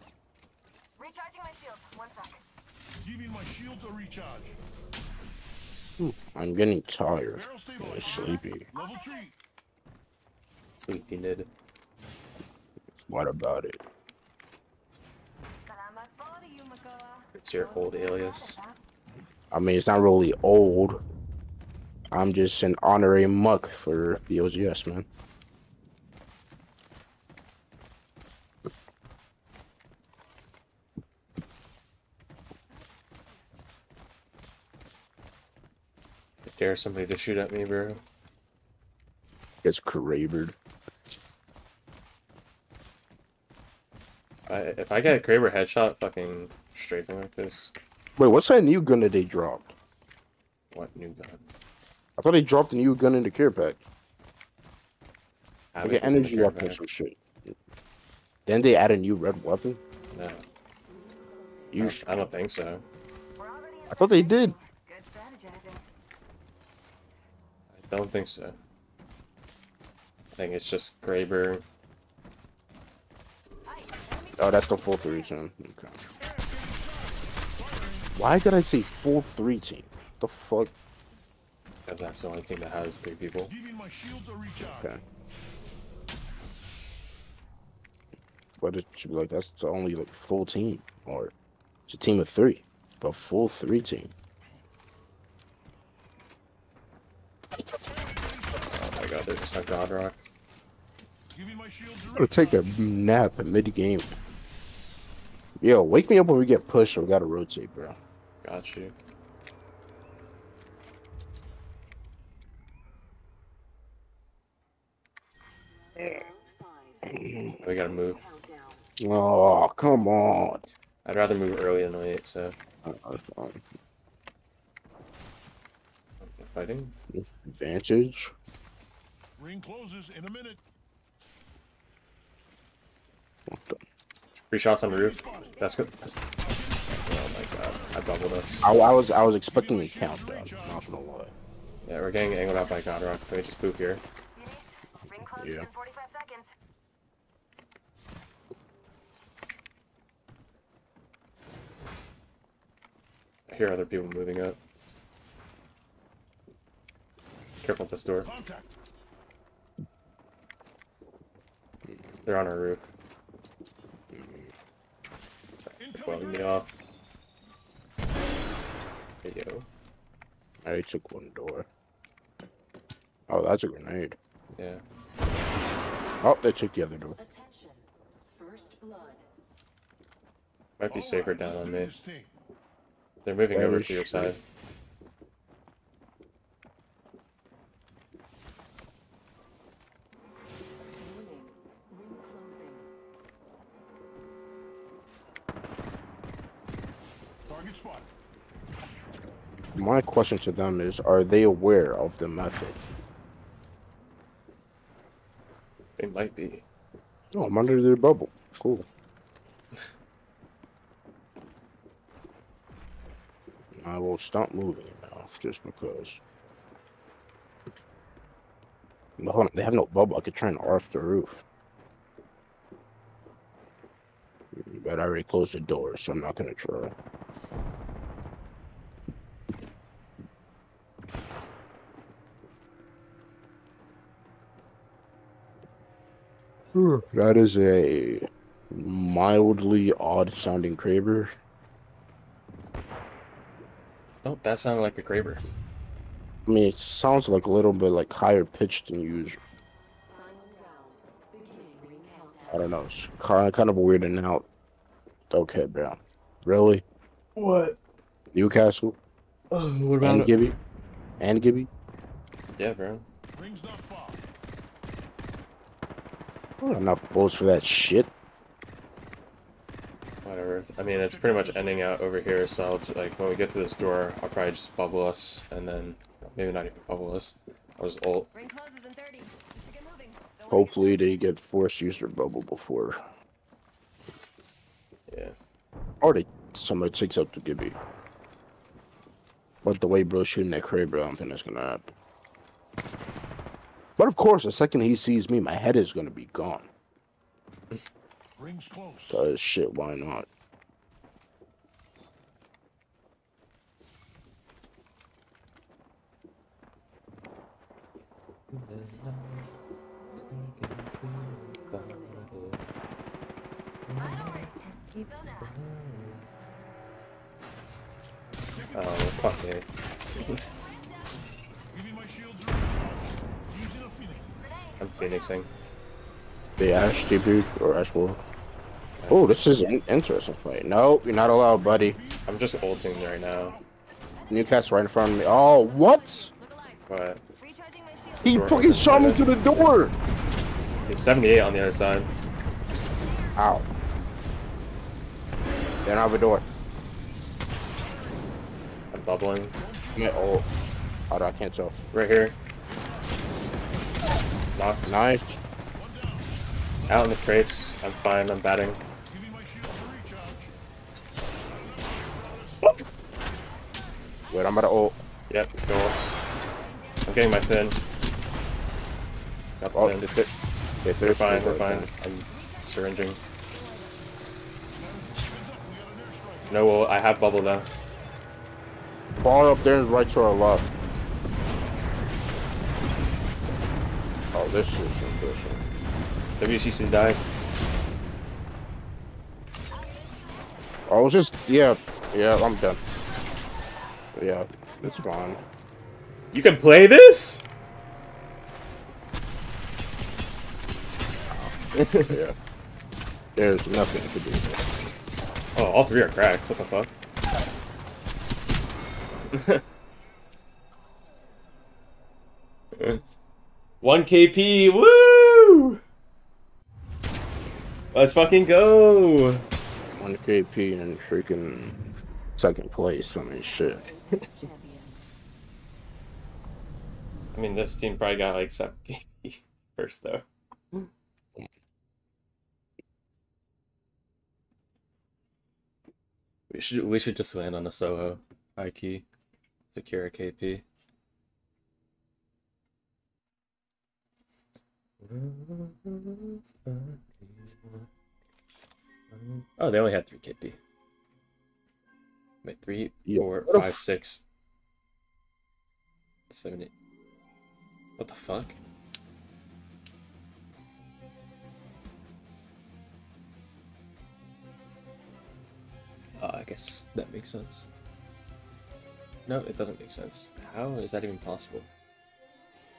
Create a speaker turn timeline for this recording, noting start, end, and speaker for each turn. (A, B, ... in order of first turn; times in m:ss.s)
0:01.0-0:02.4 A
0:03.0-0:04.6 B
0:06.0-0:08.7 C
0:07.3-0:09.4 B
0:10.8-0:11.5 D
0:13.1-0:13.8 C
0:15.7-0:18.8 A
0:17.3-0:18.6 D
0:19.5-0:21.0 C
0:22.1-0:25.1 C
0:36.5-0:38.0 D
0:39.6-0:40.6 C
0:44.5-0:47.7 D
0:48.2-0:49.8 C
0:50.7-0:51.5 D
0:52.2-0:53.8 C
0:55.7-0:56.8 D
0:55.8-0:57.5 C
0:58.5-0:59.8 C
1:00.1-1:00.4 D
1:00.9-1:01.9 E
1:01.7-1:02.0 C
1:01.8-1:02.9 D
1:03.4-1:05.8 A
1:03.9-1:04.6 C
1:07.7-1:08.6 D
1:10.4-1:11.6 D
1:13.7-1:15.3 A
1:14.4-1:16.0 C
1:16.2-1:18.1 B
1:18.2-1:20.7 C
1:21.9-1:23.5 D
1:23.5-1:24.9 B
1:24.6-1:25.0 C
1:28.6-1:31.3 C
1:31.9-1:34.1 C
1:37.9-1:39.2 B
1:38.7-1:40.2 D
1:41.3-1:42.7 B
1:42.2-1:44.2 C
1:45.6-1:48.0 C
1:48.4-1:49.0 D
1:55.9-1:58.9 E
1:57.1-1:57.6 C
1:57.6-1:58.2 D
1:59.0-2:00.6 C
2:01.0-2:02.6 D
2:02.8-2:03.6 C
2:06.2-2:07.0 D
2:07.1-2:08.3 C
2:09.4-2:10.6 B
2:13.5-2:13.8 C
2:14.4-2:18.7 D
2:14.8-2:15.7 B
2:15.0-2:15.9 A
2:16.4-2:18.9 B
2:18.6-2:21.3 C
2:19.5-2:21.0 B
2:21.8-2:24.0 D
2:24.4-2:26.5 A
2:25.3-2:25.7 C
2:33.5-2:34.6 D
2:37.6-2:38.3 D
2:38.2-2:38.7 B
2:42.2-2:42.9 D
2:44.1-2:44.5 C
2:45.6-2:46.7 D
2:45.8-2:46.7 B
2:49.2-2:49.7 D
2:50.6-2:51.7 C
2:53.3-2:54.2 C
2:54.6-2:54.8 D
2:56.2-2:57.2 C
2:57.2-2:59.3 E
3:00.8-3:01.9 D
3:00.9-3:02.3 B
3:03.2-3:04.4 D
3:03.5-3:04.4 C
3:10.9-3:12.9 E
3:17.4-3:18.1 B
3:19.8-3:22.8 C
3:26.0-3:26.6 D
3:27.3-3:28.9 C
3:33.8-3:36.2 C
3:39.2-3:41.4 C
3:44.5-3:46.9 C
3:56.7-4:01.3 C
4:04.2-4:05.4 D
4:06.5-4:09.4 C
4:10.1-4:12.7 E
4:12.5-4:14.5 C
4:15.3-4:16.8 C
4:17.4-4:17.8 D
4:18.3-4:19.0 C
4:19.5-4:20.3 D
4:20.0-4:20.6 C
4:21.2-4:21.7 C
4:22.6-4:23.0 D
4:23.3-4:24.2 B
4:26.6-4:28.1 C
4:30.2-4:38.3 D
4:30.9-4:32.0 B
4:38.3-4:41.2 A
4:40.5-4:43.0 C
4:45.1-4:45.4 D
4:46.0-4:47.8 C
4:49.6-4:51.9 C
4:54.0-4:56.7 C
4:58.4-4:59.2 B
4:59.1-5:00.3 C
5:08.5-5:09.5 D
5:10.1-5:12.6 D
5:11.4-5:12.3 E
5:13.9-5:16.3 D
5:14.0-5:15.6 A
5:18.5-5:19.2 B
5:18.7-5:20.4 D
5:20.4-5:21.2 A
5:21.7-5:24.3 B
5:24.4-5:25.4 A
5:24.8-5:25.5 D
5:26.6-5:28.2 C
5:29.0-5:29.3 D
5:29.1-5:32.0 C
5:31.5-5:33.7 B
5:32.3-5:33.6 D
5:34.2-5:34.6 A
5:34.3-5:36.3 C
5:35.3-5:36.8 A
5:36.9-5:37.2 D
5:37.4-5:38.4 A
5:38.2-5:39.7 D
5:38.2-5:40.0 C
5:40.8-5:42.1 D
5:42.9-5:43.4 A
5:43.4-5:43.7 C
5:45.8-5:46.4 C
5:48.9-5:49.6 D
5:49.6-5:50.4 B
5:50.0-5:50.5 C
5:51.1-5:51.7 C
5:51.9-5:52.4 D
5:52.6-5:53.7 B
5:54.6-5:55.0 D
5:54.9-5:55.4 C
5:55.7-5:56.3 B
5:56.9-5:58.8 D
5:59.1-6:00.5 B
6:01.5-6:02.8 B
6:03.5-6:04.4 A
6:04.3-6:05.0 C
6:05.3-6:06.0 D
6:06.4-6:07.3 A
6:07.1-6:07.8 D
6:09.6-6:10.2 D
6:09.8-6:10.3 C
6:10.8-6:11.9 C
6:11.0-6:13.2 D
6:12.3-6:14.2 A
6:14.8-6:16.7 B
6:16.5-6:17.7 D
6:19.2-6:20.7 C
6:24.3-6:25.6 C
6:26.4-6:27.2 D
6:29.7-6:30.9 A
6:30.9-6:32.8 C
6:34.2-6:35.4 C
6:34.7-6:35.1 A
6:36.3-6:37.4 D
6:41.3-6:42.4 C
6:41.7-6:42.2 D
6:43.4-6:44.6 C
6:45.6-6:46.9 D
6:49.3-6:49.6 D
6:52.8-6:53.0 D
6:53.8-6:55.8 D
6:57.9-6:59.4 D
7:00.0-7:03.8 C
7:03.4-7:05.0 E
7:07.3-7:10.2 D
7:16.5-7:19.0 D
7:19.7-7:20.6 D
7:25.0-7:27.9 D
7:29.1-7:30.6 D
7:32.4-7:34.2 D
7:33.1-7:33.8 C
7:36.3-7:36.7 D
7:38.0-7:38.6 D
7:46.2-7:47.7 D
7:49.3-7:51.7 D